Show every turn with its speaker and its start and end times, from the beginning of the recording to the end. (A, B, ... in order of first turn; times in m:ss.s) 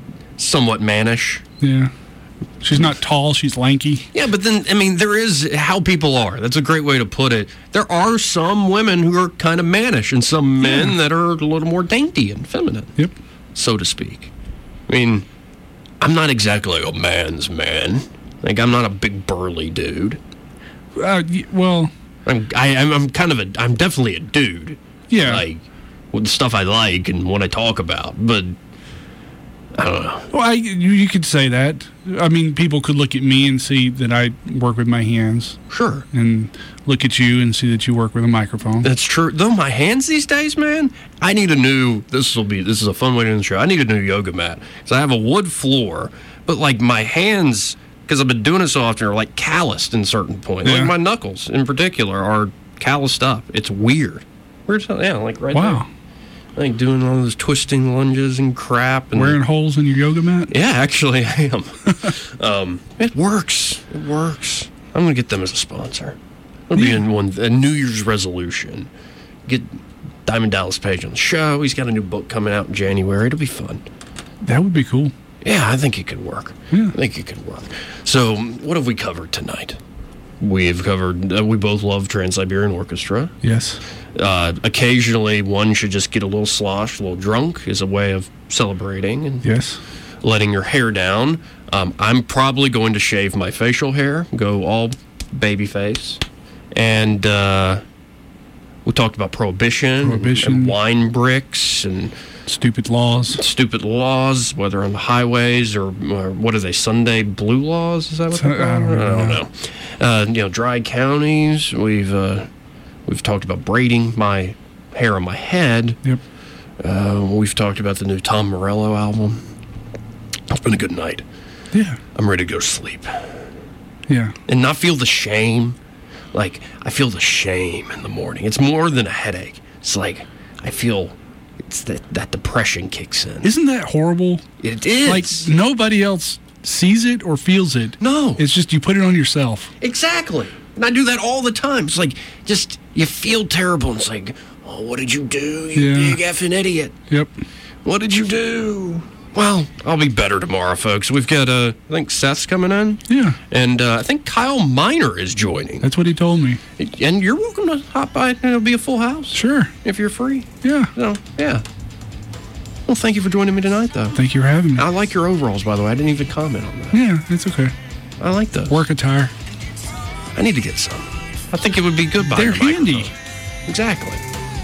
0:00.4-0:01.4 A
0:01.6-0:01.9 B
0:02.6-0:04.1 B
0:04.1-0:12.9 A
0:10.6-0:11.0 B
0:13.5-0:14.3 A
0:14.9-0:15.3 A
0:16.0-0:20.2 A
0:20.9-0:21.9 B
0:22.2-0:28.6 A
0:25.1-0:25.4 B
0:29.7-0:30.3 A
0:30.3-0:35.6 B
0:35.7-0:36.0 A
0:36.1-0:38.9 B
0:38.8-0:55.8 A
0:50.6-0:50.9 B
0:55.5-0:55.9 B
0:56.5-0:59.4 A
0:59.1-1:00.5 B
1:00.5-1:06.2 A
1:06.7-1:08.9 A
1:06.8-1:07.0 B
1:09.4-1:13.8 A
1:14.4-1:15.1 B
1:15.4-1:19.8 A
1:20.4-1:23.3 A
1:23.4-1:23.8 B
1:24.1-1:29.4 A
1:29.4-1:29.8 B
1:30.2-1:36.2 A
1:36.7-1:37.8 A
1:38.8-1:42.1 A
1:40.0-1:40.8 B
1:42.5-1:43.4 B
1:43.3-1:52.5 A
1:48.3-1:49.4 B
1:53.0-1:56.0 A
1:56.8-1:59.4 A
2:00.5-2:01.2 A
2:01.7-2:02.0 B
2:02.1-2:03.3 A
2:04.1-2:04.3 B
2:04.5-2:05.8 A
2:06.3-2:13.5 A
2:13.4-2:14.4 B
2:14.6-2:15.5 A
2:15.0-2:19.7 B
2:18.0-2:18.4 A
2:19.8-2:27.0 A
2:25.7-2:26.2 B
2:27.8-2:35.9 A
2:33.1-2:33.4 B
2:35.8-2:36.6 B
2:36.8-2:41.6 A
2:39.3-2:39.7 B
2:40.6-2:40.9 B
2:42.8-2:44.2 A
2:44.1-2:44.8 B
2:44.8-2:47.0 A
2:46.9-2:47.7 B
2:48.2-2:48.8 A
2:48.7-2:49.3 B
2:50.3-2:53.1 A
2:52.3-2:53.1 B
2:53.6-2:54.2 A